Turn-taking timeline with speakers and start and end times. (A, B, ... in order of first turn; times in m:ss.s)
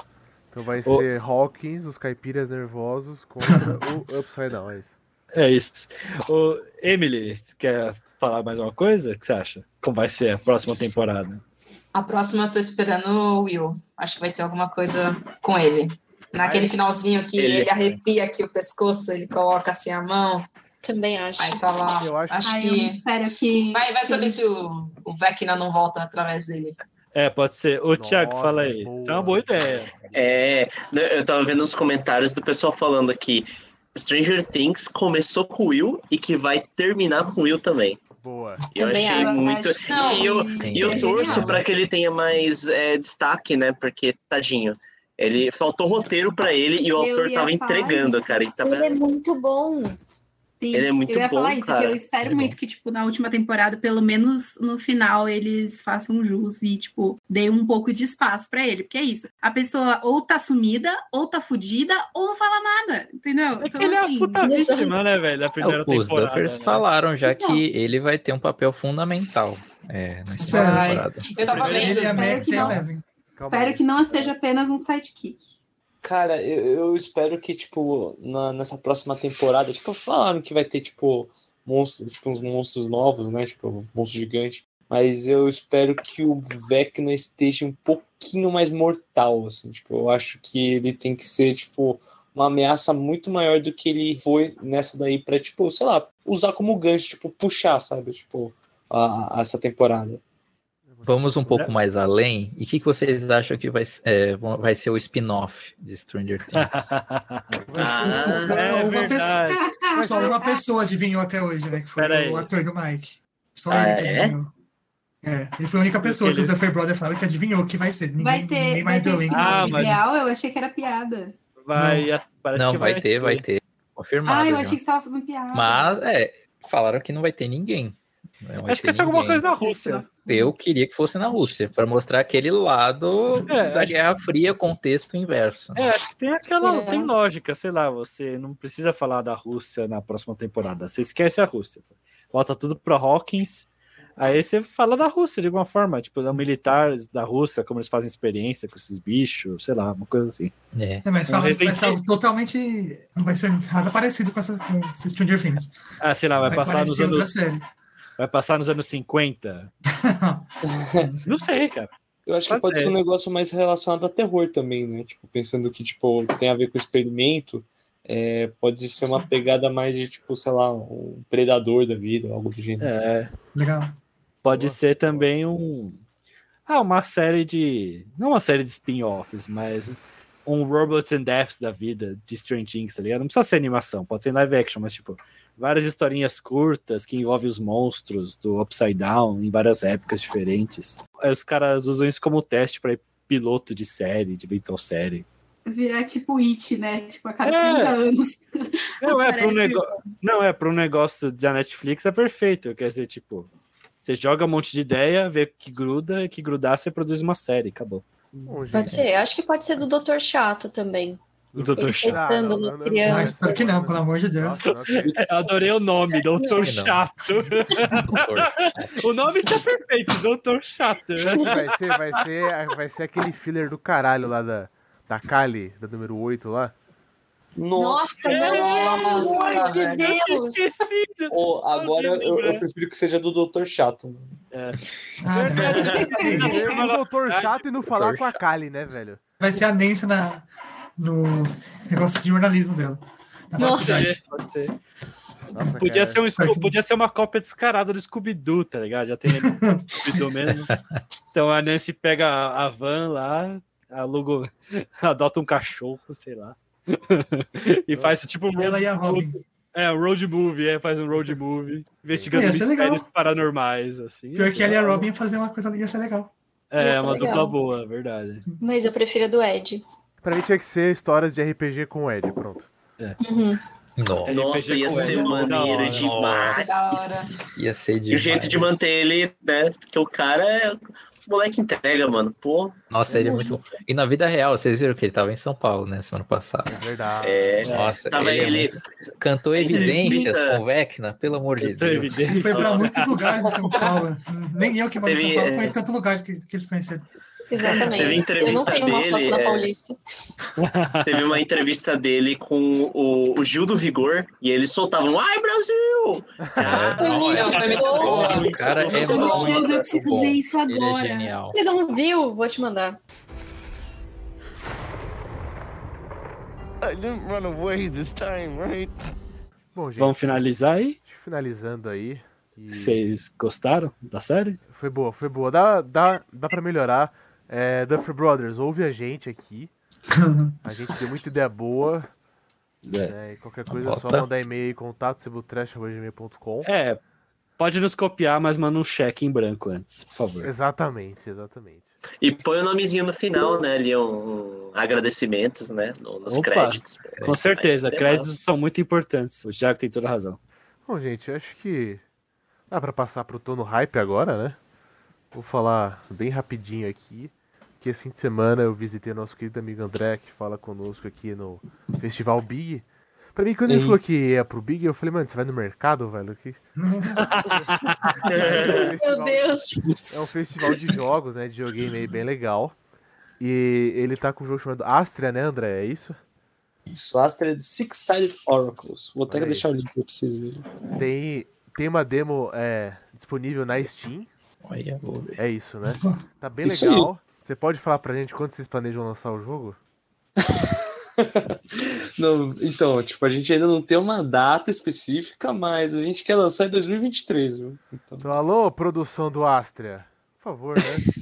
0:00.5-0:05.0 A
0:05.3-0:11.4 B
0:11.9-0:20.5 C
0:17.4-0:17.9 D
0:20.8-0:21.6 E
0:21.4-0:23.0 C
0:22.0-0:22.5 A
0:22.4-0:24.4 F
0:23.7-0:26.8 C
0:27.1-0:29.9 B
0:28.0-0:30.3 A
0:30.1-0:38.0 D
0:38.2-0:38.6 A
0:38.7-0:49.0 D
0:38.8-0:39.9 E
0:39.9-0:40.6 C
0:40.0-0:41.6 F
0:40.6-0:41.6 G
0:47.0-0:48.6 F
0:48.6-0:50.0 E
0:50.6-1:04.6 F
0:50.7-0:52.0 D
0:52.2-0:52.6 G
1:03.6-1:06.8 B
1:04.4-1:05.0 E
1:05.6-1:11.6 G
1:07.2-1:07.6 F
1:10.4-1:12.4 C
1:10.4-1:11.0 H
1:11.5-1:13.0 H
1:11.5-1:12.0 B
1:12.0-1:12.8 F
1:12.2-1:12.7 G
1:13.3-1:14.3 A
1:13.5-1:15.5 F
1:16.0-1:40.2 I
1:40.9-1:41.6 A
1:41.0-1:46.9 G
1:46.5-1:47.6 B
1:47.7-1:49.1 A
1:47.7-1:48.6 D
1:47.8-1:54.5 H
1:48.4-1:49.6 B
1:49.5-1:50.6 F
1:49.9-1:50.4 A
1:52.0-1:52.5 B
1:53.7-1:54.3 D
1:55.2-2:00.0 H
1:55.9-1:56.5 B
1:58.2-2:01.3 F
1:59.3-2:00.0 B
2:01.6-2:03.4 B
2:01.7-2:02.1 H
2:02.5-2:04.8 G
2:04.2-2:06.0 F
2:05.5-2:15.9 G
2:08.7-2:10.1 B
2:09.6-2:10.5 F
2:13.5-2:14.0 B
2:15.7-2:30.5 B
2:16.6-2:17.1 E
2:30.7-2:31.0 G
2:31.0-2:35.7 H
2:31.2-2:32.0 B
2:36.0-2:37.3 B
2:36.4-2:36.7 G
2:36.5-2:37.6 H
2:38.2-2:39.7 B
2:40.0-2:41.5 H
2:40.7-2:41.1 I
2:41.2-2:41.9 B
2:42.2-2:52.9 I
2:42.5-2:42.9 B
2:52.8-2:53.3 B
2:53.5-2:53.9 H
2:54.4-2:56.0 B
2:54.5-2:55.3 A
2:56.7-3:15.2 B
3:15.7-3:20.1 F
3:17.4-3:18.0 B
3:19.0-3:23.5 B
3:24.0-3:28.6 B
3:28.5-3:29.0 A
3:28.7-3:31.2 E
3:31.5-3:35.4 A
3:31.6-3:32.3 B
3:31.7-3:33.6 E
3:33.0-3:34.7 H
3:35.1-3:42.0 B
3:36.1-3:36.8 E
3:36.6-3:37.0 G
3:38.0-3:39.0 G
3:41.4-3:46.7 A
3:47.6-3:49.6 I
3:47.7-3:50.7 E
3:48.2-3:52.6 B
3:48.4-3:50.1 C
3:51.3-3:54.4 I
3:54.5-3:57.6 B
3:55.2-3:56.1 H
3:55.6-3:56.9 E
3:55.7-3:56.0 D
3:56.2-3:59.2 A
3:57.8-3:58.3 G
3:59.4-4:00.5 H
4:01.0-4:03.0 H
4:03.5-4:04.2 H
4:03.6-4:04.7 B
4:03.6-4:04.0 E
4:05.5-4:06.2 A
4:05.8-4:10.7 B
4:06.3-4:06.7 H
4:09.3-4:10.2 H
4:10.7-4:11.0 G
4:11.3-4:25.1 B
4:18.6-4:19.4 H
4:22.1-4:22.4 A
4:22.3-4:23.0 H
4:24.3-4:26.3 H
4:26.7-4:28.4 B
4:26.8-4:27.5 E
4:28.6-4:29.8 E
4:30.2-4:32.7 A
4:33.2-4:33.6 E
4:34.0-4:38.8 G
4:34.2-4:36.4 B
4:34.3-4:36.7 D
4:36.4-4:37.3 C
4:38.1-4:42.7 D
4:42.9-4:46.8 G
4:43.1-4:43.8 B
4:46.6-4:47.8 A
4:47.2-4:50.6 D
4:47.6-4:52.6 G
4:47.6-4:48.0 B
4:49.7-4:50.3 H
4:51.6-4:53.2 B
4:52.3-4:57.0 H
4:53.7-4:54.0 C
4:55.0-4:55.7 D
4:57.5-5:00.0 E
4:57.6-4:59.8 D
4:57.6-4:58.0 H
5:00.6-5:01.2 B
5:01.0-5:09.8 D
5:06.6-5:11.6 G
5:07.0-5:08.4 E
5:07.2-5:09.6 C
5:09.0-5:11.4 F
5:11.5-5:13.0 E
5:16.8-5:18.9 J
5:19.7-5:20.4 A
5:20.0-5:21.0 B
5:21.0-5:23.0 A
5:22.7-5:24.6 B
5:24.7-5:29.7 A
5:30.1-5:30.5 H
5:30.6-5:32.1 A
5:32.8-5:33.1 B
5:33.0-5:36.7 A
5:33.7-5:34.2 G
5:36.6-5:37.0 B
5:37.6-5:40.5 B
5:40.4-5:41.9 A
5:42.2-5:48.3 D
5:46.3-5:50.4 B
5:47.1-5:47.4 G
5:50.8-5:52.0 A
5:52.7-5:54.6 A
5:55.3-6:06.6 A
6:03.7-6:04.0 I
6:06.8-6:07.6 H
6:07.2-6:08.3 B
6:08.2-6:08.9 D
6:08.3-6:09.6 A
6:08.4-6:10.2 E
6:10.1-6:12.8 A
6:13.4-6:16.2 A
6:16.9-6:20.8 I
6:19.3-6:19.7 A
6:20.9-6:24.3 A
6:24.6-6:25.4 G
6:25.4-6:29.8 A
6:26.6-6:27.1 I
6:30.4-6:38.3 I
6:38.2-6:41.0 A